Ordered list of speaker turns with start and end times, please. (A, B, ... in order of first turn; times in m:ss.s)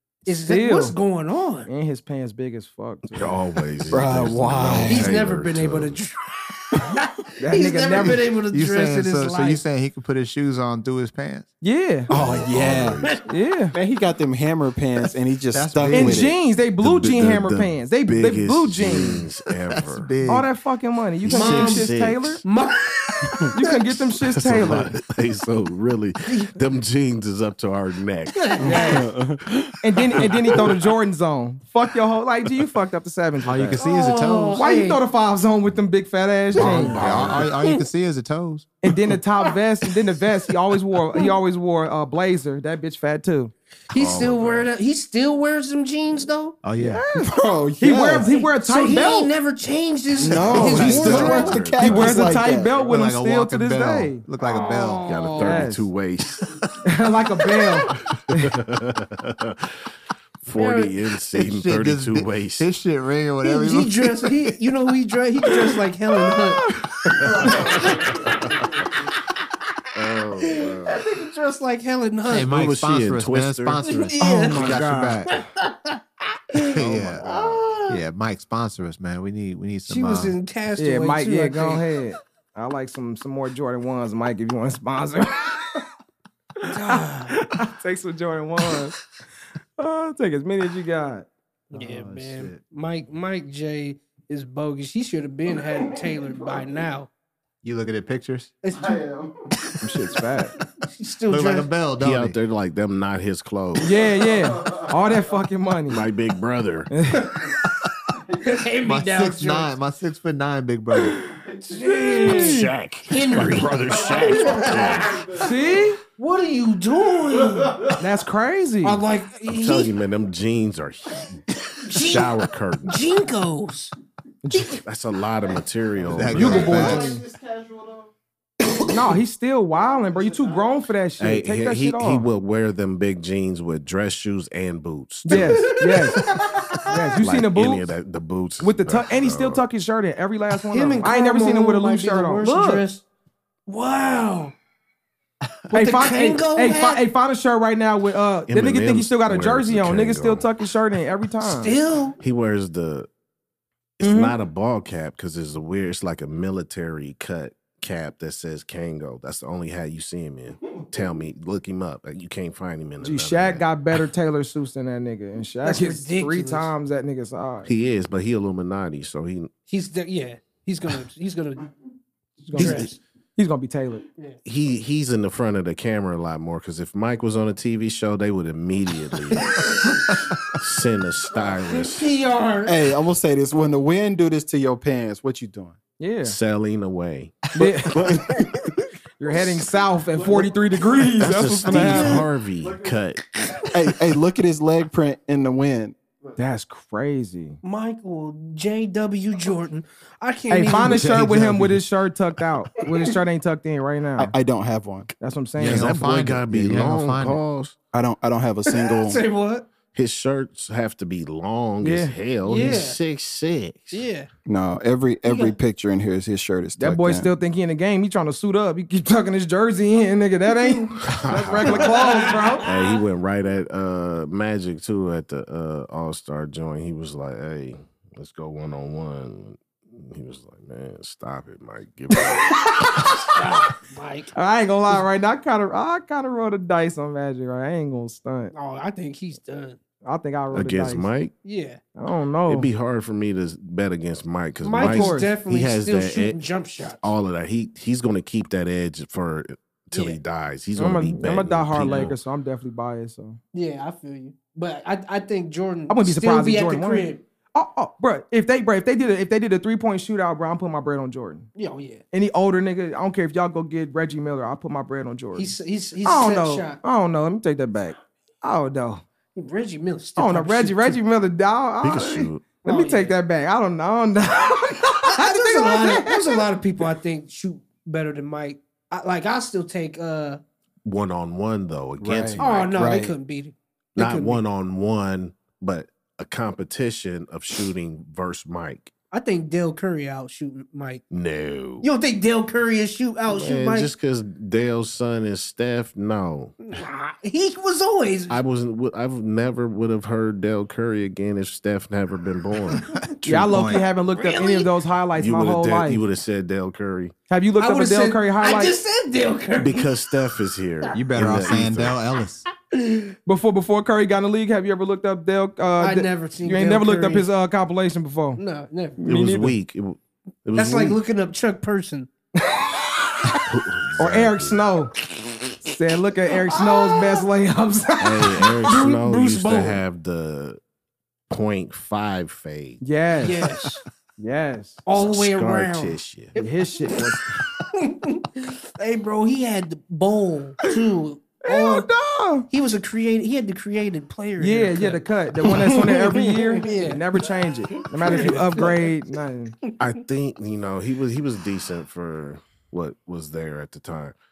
0:00.2-0:01.7 A
0:00.4-0:01.0 B
0:01.7-0:03.3 B
0:03.1-0:06.0 C
0:03.9-0:05.2 D
0:04.9-0:09.6 A
0:07.4-0:08.2 B
0:08.5-0:11.5 E
0:11.6-0:12.1 B
0:12.1-0:13.0 D
0:12.1-0:13.2 C
0:13.3-0:13.7 B
0:13.7-0:16.4 D
0:15.5-0:16.3 E
0:15.9-0:19.2 B
0:16.8-0:20.1 C
0:19.7-0:20.5 E
0:20.3-0:22.4 B
0:21.2-0:22.4 C
0:21.3-0:21.9 A
0:22.4-0:23.8 A
0:23.5-0:24.9 B
0:24.3-0:28.8 C
0:26.3-0:26.6 A
0:28.3-0:29.1 A
0:28.6-0:29.1 B
0:28.6-0:29.5 D
0:29.8-0:33.8 B
0:33.4-0:34.6 E
0:33.8-0:35.0 A
0:34.5-0:37.0 B
0:36.5-0:37.5 C
0:36.5-0:38.7 E
0:37.1-0:37.8 A
0:38.8-0:43.5 B
0:43.9-0:46.6 A
0:44.0-0:44.6 E
0:44.0-0:44.7 C
0:46.6-0:47.0 E
0:46.8-0:49.3 B
0:47.1-0:48.3 D
0:48.2-0:51.6 A
0:50.2-0:52.8 D
0:50.5-0:54.2 B
0:50.5-0:52.3 C
0:50.6-0:55.1 E
0:54.4-0:55.7 A
0:55.0-0:56.7 C
0:55.4-0:55.9 B
0:56.8-0:58.5 B
0:58.0-0:59.8 C
1:00.4-1:02.7 C
1:00.5-1:00.9 A
1:01.3-1:04.6 E
1:03.4-1:08.3 A
1:07.2-1:08.5 C
1:09.9-1:11.0 C
1:10.5-1:12.6 A
1:12.3-1:15.4 E
1:12.4-1:14.1 C
1:13.8-1:18.0 A
1:14.2-1:15.3 B
1:16.6-1:17.3 E
1:16.7-1:17.6 C
1:17.9-1:20.4 E
1:19.9-1:21.8 A
1:20.8-1:25.8 B
1:26.6-1:29.0 B
1:26.7-1:27.4 A
1:29.8-1:31.3 B
1:31.7-1:37.1 A
1:31.7-1:32.6 E
1:37.6-1:38.5 E
1:38.6-1:39.0 A
1:38.8-1:39.3 D
1:39.8-1:40.6 B
1:40.8-1:41.7 A
1:41.3-1:42.4 E
1:42.0-1:44.0 C
1:43.8-1:46.0 B
1:45.9-1:46.9 C
1:46.9-1:47.3 B
1:47.2-1:47.6 A
1:48.4-1:49.7 A
1:48.8-1:51.3 E
1:51.7-1:58.0 A
1:52.0-1:55.2 C
1:52.2-1:52.6 B
1:55.3-1:56.0 B
1:58.0-1:59.0 B
1:58.8-1:59.9 A
1:59.5-2:03.0 C
2:01.8-2:03.9 A
2:04.4-2:04.8 B
2:04.5-2:04.8 A
2:04.8-2:06.9 C
2:06.0-2:07.2 E
2:06.2-2:07.2 B
2:06.8-2:07.1 D
2:08.9-2:12.2 B
2:11.2-2:15.7 C
2:15.2-2:16.2 B
2:15.3-2:17.0 A
2:16.8-2:17.8 B
2:17.2-2:19.6 C
2:18.6-2:22.8 B
2:20.7-2:23.0 A
2:23.7-2:24.5 A
2:25.7-2:31.7 B
2:25.7-2:27.0 A
2:28.5-2:30.5 C
2:31.4-2:32.2 A
2:32.2-2:33.1 C
2:34.0-2:43.6 C
2:34.0-2:34.4 B
2:43.0-2:47.7 B
2:45.6-2:46.7 A
2:47.6-2:49.5 C
2:49.7-2:51.7 A
2:52.5-2:53.0 A
2:52.5-2:54.0 B
2:52.6-2:52.8 C
2:54.4-2:59.7 C
2:59.3-3:00.2 A
3:00.5-3:02.1 C
3:01.4-3:02.8 A
3:02.6-3:05.8 D
3:06.0-3:06.4 B
3:06.2-3:08.2 C
3:07.6-3:08.0 B
3:07.6-3:08.7 D
3:09.2-3:12.2 B
3:11.2-3:13.3 C
3:11.7-3:12.2 A
3:13.4-3:13.7 A
3:13.7-3:16.0 D
3:16.4-3:17.6 B
3:17.6-3:21.3 A
3:20.5-3:24.3 B
3:21.2-3:21.5 D
3:24.2-3:25.1 D
3:25.2-3:25.9 B
3:25.6-3:27.4 E
3:25.6-3:27.7 C
3:27.9-3:29.2 D
3:28.7-3:29.7 A
3:29.9-3:34.0 C
3:31.8-3:32.1 B
3:32.4-3:33.0 A
3:33.9-3:34.3 A
3:34.5-3:37.3 D
3:35.2-3:35.6 A
3:36.8-3:42.6 B
3:41.0-3:41.9 C
3:41.6-3:42.8 A
3:42.6-3:53.1 C
3:52.8-3:53.1 B
3:53.1-3:54.3 A
3:54.3-3:58.5 B
3:58.5-3:59.8 A
4:00.0-4:01.1 B
4:00.5-4:01.3 C
4:01.4-4:01.8 A
4:02.0-4:02.7 B
4:02.5-4:06.4 C
4:04.6-4:07.1 A
4:04.8-4:05.3 B
4:07.0-4:12.1 C
4:09.9-4:10.2 A
4:10.8-4:13.4 B
4:13.5-4:17.2 A
4:15.9-4:21.5 B
4:21.6-4:22.0 A
4:22.1-4:29.0 B
4:25.3-4:26.8 A
4:29.3-4:31.0 A
4:30.2-4:36.4 B
4:31.8-4:32.5 C
4:32.6-4:33.1 A
4:35.0-4:40.4 A
4:40.8-4:43.0 C
4:42.0-4:42.3 E
4:42.4-4:44.4 A
4:42.7-4:43.1 D
4:44.0-4:48.9 C
4:49.1-4:51.0 A
4:51.1-4:51.8 C
4:51.8-4:53.9 A
4:53.3-4:56.6 C
4:56.7-4:58.4 A
4:58.3-5:02.8 C
5:02.9-5:03.8 E
5:03.2-5:06.0 B
5:04.1-5:04.7 A
5:05.2-5:07.1 C
5:07.3-5:08.8 B
5:07.6-5:10.0 A
5:09.6-5:12.0 C
5:10.9-5:12.4 E
5:12.7-5:13.1 A
5:13.2-5:18.4 B
5:15.8-5:17.3 A
5:18.4-5:19.0 A
5:19.0-5:19.6 B
5:19.0-5:21.0 C
5:20.5-5:22.1 A
5:22.4-5:24.9 B
5:23.4-5:24.6 C
5:25.6-5:28.7 B
5:26.5-5:27.2 A
5:28.0-5:30.6 C
5:28.6-5:29.8 A
5:31.3-5:32.8 C
5:32.8-5:33.4 B
5:33.2-5:33.8 A
5:34.2-5:34.8 B
5:34.8-5:37.0 A
5:34.9-5:36.3 C
5:36.4-5:37.4 B
5:37.6-5:41.9 A
5:41.4-5:42.5 B
5:42.5-5:47.0 A
5:44.4-5:49.6 B
5:48.0-5:48.9 A
5:49.8-5:54.1 C